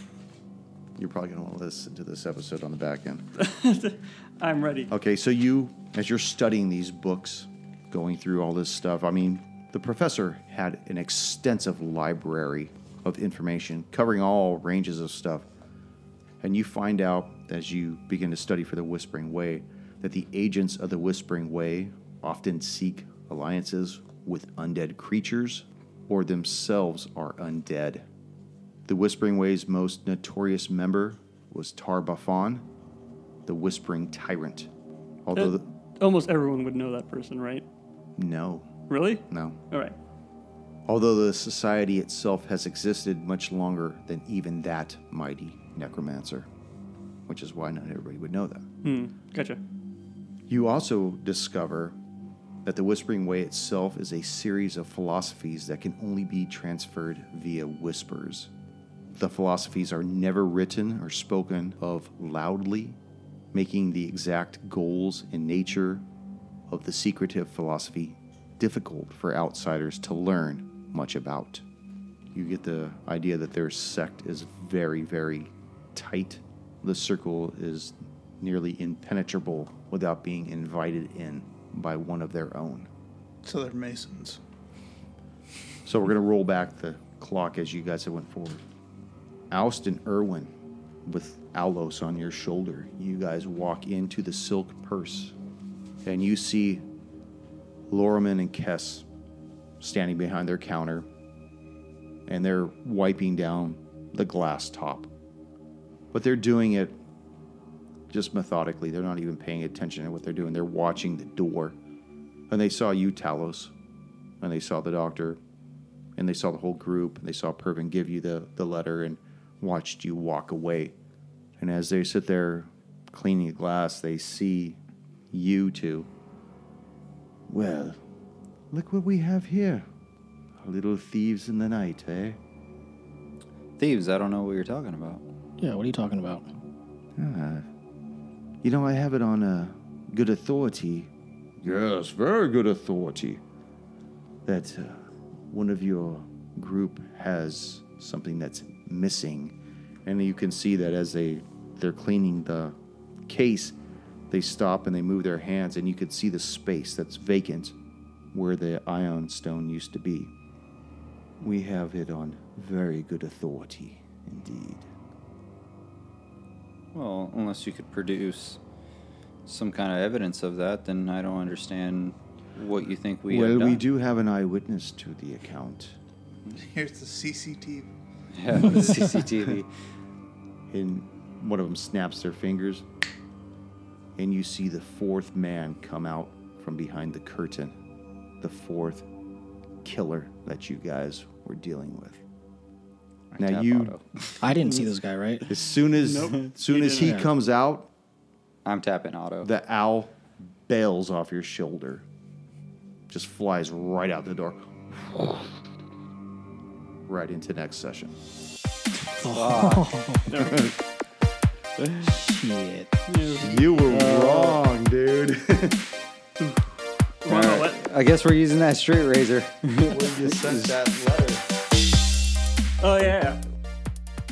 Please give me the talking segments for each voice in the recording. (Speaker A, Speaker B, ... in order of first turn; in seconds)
Speaker A: 1.0-3.2, 4.9-15.5, 16.4-28.1, 28.9-32.6, 33.5-34.7, 35.2-35.6, 38.2-38.7, 39.3-39.6, 40.9-46.5, 47.3-48.6, 50.5-52.0, 52.6-58.5, 59.1-63.0, 63.5-66.0, 66.7-71.6, 72.3-82.9, 85.8-88.6, 89.5-90.5, 91.0-95.3, 96.0-96.8, 97.9-99.0, 99.8-101.0, 102.3-105.1, 106.1-107.0, 108.1-111.8, 112.5-113.7, 114.4-115.4, 116.2-120.9, 121.6-124.8, 125.3-126.1, 127.5-128.0, 128.7-129.8, 130.6-132.4, 137.2-137.7, 138.6-143.4, 144.4-152.7, 153.3-153.7, 154.3-157.7, 158.3-160.3, 161.4-164.9, 173.3-175.9, 180.7-182.8, 184.2-187.7, 188.4-189.1, 189.8-192.2, 193.4-193.9, 195.5-197.9, 199.4-202.0, 203.1-205.5, 207.1-208.1, 210.4-210.7, 213.4-215.9, 219.9-221.4
Speaker B: 3.4-4.9, 35.3-37.6, 38.9-39.9, 48.8-49.6, 195.9-197.2, 210.3-210.7, 213.1-213.9, 217.2-217.8, 222.8-223.4
Speaker C: 83.4-84.4, 176.6-177.9
Speaker D: 133.8-135.2, 166.9-168.6, 169.4-173.8, 178.3-179.7, 193.3-194.3, 198.6-199.5, 209.3-209.9, 213.8-214.5, 217.3-220.7
Speaker E: 135.6-136.4, 194.4-195.5, 197.0-197.2, 209.2-210.6, 211.9-212.9